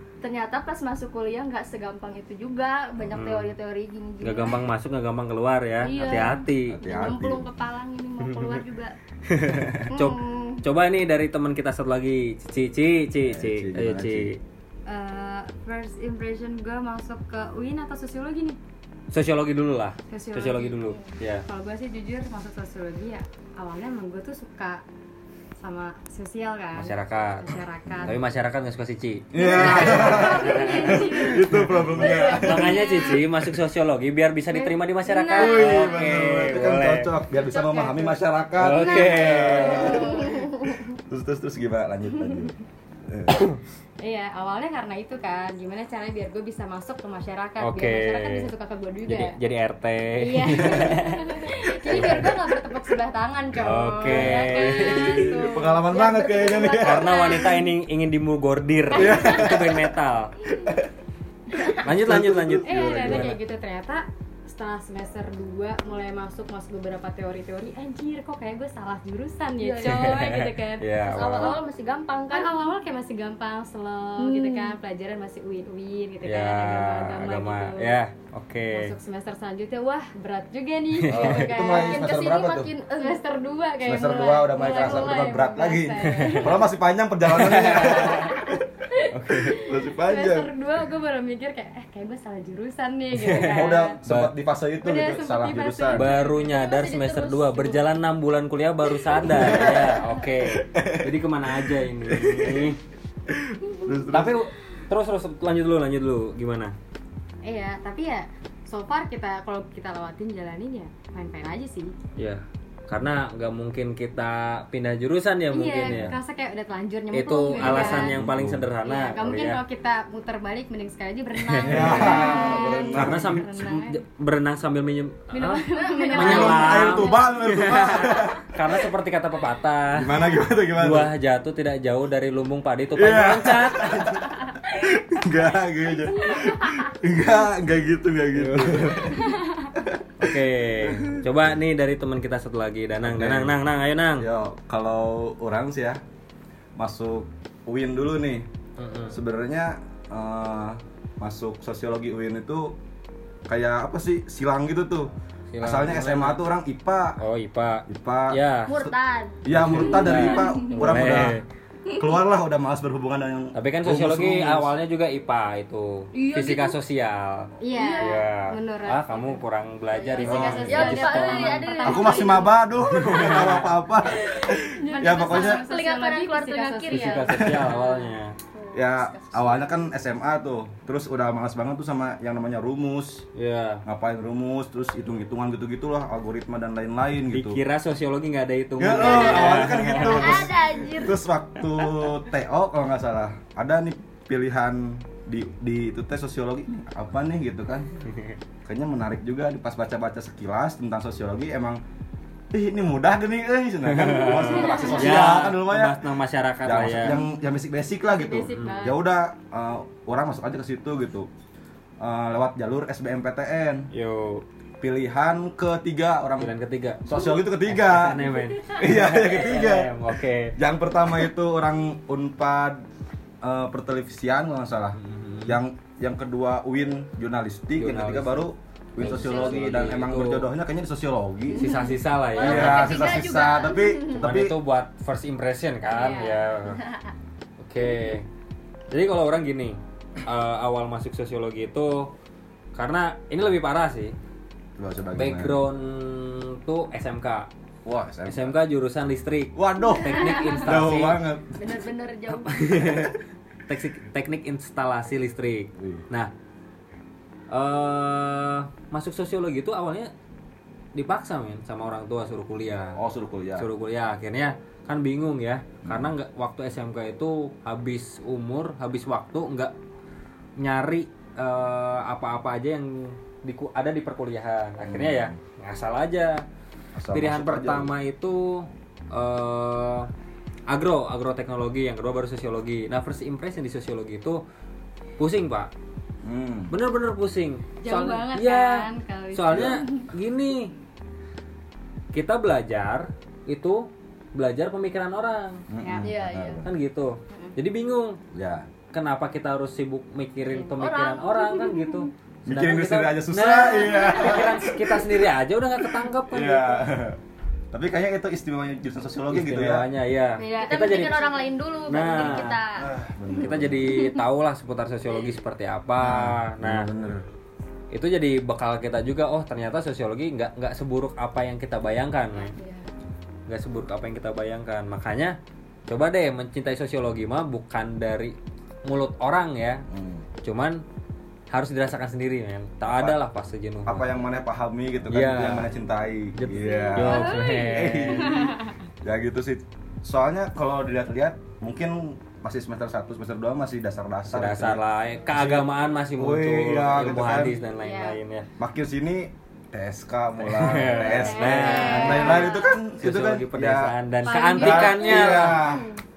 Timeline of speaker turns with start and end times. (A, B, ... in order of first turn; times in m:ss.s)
0:00.2-0:04.6 A
0:03.1-0:03.5 B
0:04.2-0:06.8 B
0:05.8-0:09.0 A
0:06.7-0:07.5 C
0:08.2-0:08.6 B
0:09.3-0:14.4 B
0:09.5-0:09.8 C
0:09.9-0:10.6 A
0:13.2-0:14.3 C
0:14.9-0:18.6 D
0:19.1-0:21.4 B
0:20.1-0:20.8 D
0:20.9-0:21.2 A
0:21.5-0:24.8 D
0:25.6-0:28.2 D
0:26.8-0:37.1 B
0:27.9-0:28.2 C
0:29.3-0:32.8 C
0:29.4-0:33.2 D
0:29.4-0:31.4 A
0:32.0-0:33.2 A
0:34.5-0:35.6 D
0:35.1-0:36.1 A
0:35.3-0:43.4 C
0:37.4-0:38.1 D
0:37.7-0:38.0 A
0:38.6-0:40.0 B
0:38.7-0:40.9 A
0:39.7-0:40.4 D
0:43.3-0:43.6 B
0:44.0-0:49.4 D
0:47.6-0:48.5 B
0:49.1-0:52.3 B
0:50.2-0:55.8 D
0:51.4-0:52.2 A
0:53.6-0:55.3 B
0:54.1-0:57.4 C
0:54.5-0:57.7 A
0:56.8-1:00.4 B
0:58.9-0:59.9 C
0:59.0-0:59.5 A
1:01.5-1:01.8 A
1:01.8-1:03.4 C
1:01.8-1:03.4 B
1:02.6-1:10.9 D
1:09.6-1:10.3 A
1:09.8-1:11.6 B
1:11.0-1:12.6 A
1:12.3-1:18.0 D
1:14.2-1:14.8 A
1:16.2-1:18.9 B
1:18.7-1:22.1 D
1:20.9-1:21.5 B
1:21.1-1:22.7 C
1:21.3-1:23.2 A
1:23.0-1:26.7 D
1:23.8-1:28.6 C
1:26.0-1:26.5 B
1:27.3-1:28.4 B
1:29.1-1:29.6 B
1:29.3-1:34.0 D
1:29.6-1:30.6 C
1:33.2-1:34.3 B
1:33.3-1:36.1 C
1:34.8-1:36.5 D
1:35.9-1:42.8 B
1:36.2-1:37.9 A
1:39.3-1:42.7 C
1:43.3-1:44.4 C
1:44.1-1:46.8 B
1:47.4-1:52.0 D
1:52.2-1:56.1 B
1:55.5-1:58.2 D
1:55.8-1:56.2 C
1:57.1-1:59.6 B
1:57.6-1:58.7 C
1:58.8-2:04.0 D
2:01.4-2:02.4 B
2:01.6-2:03.4 C
2:02.0-2:02.9 A
2:02.9-2:05.6 B
2:05.3-2:07.7 D
2:05.7-2:07.3 A
2:06.2-2:08.7 C
2:06.2-2:14.2 B
2:07.9-2:08.2 A
2:10.0-2:11.1 C
2:13.0-2:21.4 C
2:18.4-2:19.2 B
2:20.2-2:24.3 B
2:23.0-2:23.6 C
2:24.2-2:26.0 C
2:26.8-2:28.5 C
2:28.8-2:29.2 B
2:29.1-2:32.8 C
2:33.5-2:35.1 C
2:35.5-2:36.4 B
2:35.6-2:37.2 C
2:37.2-2:38.8 B
2:37.9-2:38.9 C
2:38.7-2:41.0 A
2:39.4-2:41.4 C
2:39.5-2:41.4 B
2:42.0-2:44.7 C
2:43.5-2:52.0 B
2:46.1-2:46.8 A
2:47.6-2:49.4 D
2:47.7-2:48.2 A
2:50.0-2:52.6 A
2:50.1-2:52.5 D
2:50.2-2:51.0 C
2:51.8-2:55.7 C
2:52.8-2:53.8 B
2:54.1-2:59.8 A
2:54.3-2:57.9 D
2:56.9-2:58.4 B
2:57.3-2:57.7 C
2:58.7-3:03.3 C
3:03.4-3:03.8 B
3:03.8-3:07.6 C
3:07.3-3:10.5 B
3:08.8-3:17.9 C
3:09.0-3:11.2 A
3:18.6-3:21.8 C
3:22.5-3:26.1 C
3:23.9-3:27.2 B
3:24.6-3:24.9 A
3:26.6-3:31.3 C
3:28.1-3:29.0 D
3:28.5-3:28.9 B
3:32.0-3:33.9 C
3:33.9-3:34.4 B
3:34.8-3:36.5 C
3:36.4-3:40.6 B
3:37.0-3:42.8 C
3:43.4-3:51.8 C
3:45.0-3:45.6 B
3:47.8-3:48.4 B
3:49.0-3:50.5 B
3:49.0-3:49.6 A
3:51.5-3:54.2 A
3:51.6-3:53.2 B
3:52.4-3:54.6 C
3:54.2-3:56.8 B
3:55.9-3:56.4 D
3:56.7-3:57.1 A
3:57.6-3:58.3 B
3:58.9-4:02.1 B
4:02.7-4:04.2 B
4:04.8-4:05.6 C
4:05.2-4:07.5 B
4:07.8-4:08.6 C
4:08.3-4:11.2 B
4:09.5-4:11.6 C
4:11.6-4:12.9 A
4:12.4-4:13.2 B
4:12.8-4:13.1 C
4:13.7-4:16.3 B
4:15.8-4:16.0 C
4:17.5-4:20.1 B
4:21.0-4:23.0 B
4:23.0-4:23.7 C
4:23.6-4:29.7 B
4:25.8-4:26.1 C
4:30.6-4:36.4 B
4:34.8-4:35.4 C
4:37.0-4:37.9 C
4:37.1-4:40.1 B
4:40.7-4:44.4 B
4:45.2-4:45.7 B
4:46.2-4:46.7 C
4:46.7-4:50.7 B
4:47.8-4:50.0 D
4:49.5-4:49.8 C
4:52.1-4:55.6 B
4:55.7-4:56.7 C
4:55.8-4:56.1 D
4:56.0-4:56.6 A
4:56.6-4:58.2 B
4:58.3-4:58.7 C
4:58.9-5:06.8 B
5:00.8-5:02.1 A
5:02.5-5:05.2 C
5:06.3-5:07.2 C
5:07.7-5:09.9 C
5:09.3-5:11.2 B
5:10.4-5:11.5 D
5:10.5-5:12.9 A
5:11.9-5:12.6 B
5:12.8-5:14.0 C
5:13.3-5:16.9 B
5:16.0-5:17.2 C
5:17.9-5:22.6 B
5:22.4-5:22.9 A
5:23.5-5:25.4 B
5:25.9-5:29.9 B
5:29.9-5:30.3 C
5:30.4-5:30.8 B
5:31.5-5:34.1 B
5:32.8-5:33.2 C
5:33.8-5:47.6 C
5:35.1-5:35.7 B
5:36.4-5:38.3 B
5:36.8-5:38.6 D
5:44.3-5:48.5 B
5:47.7-5:48.2 D
5:48.6-5:53.9 C
5:50.4-5:52.5 B
5:50.9-5:52.7 D
5:51.7-5:52.7 A
5:53.0-5:55.6 B
5:54.3-5:55.6 D
5:54.5-5:55.9 C
5:55.1-5:56.0 A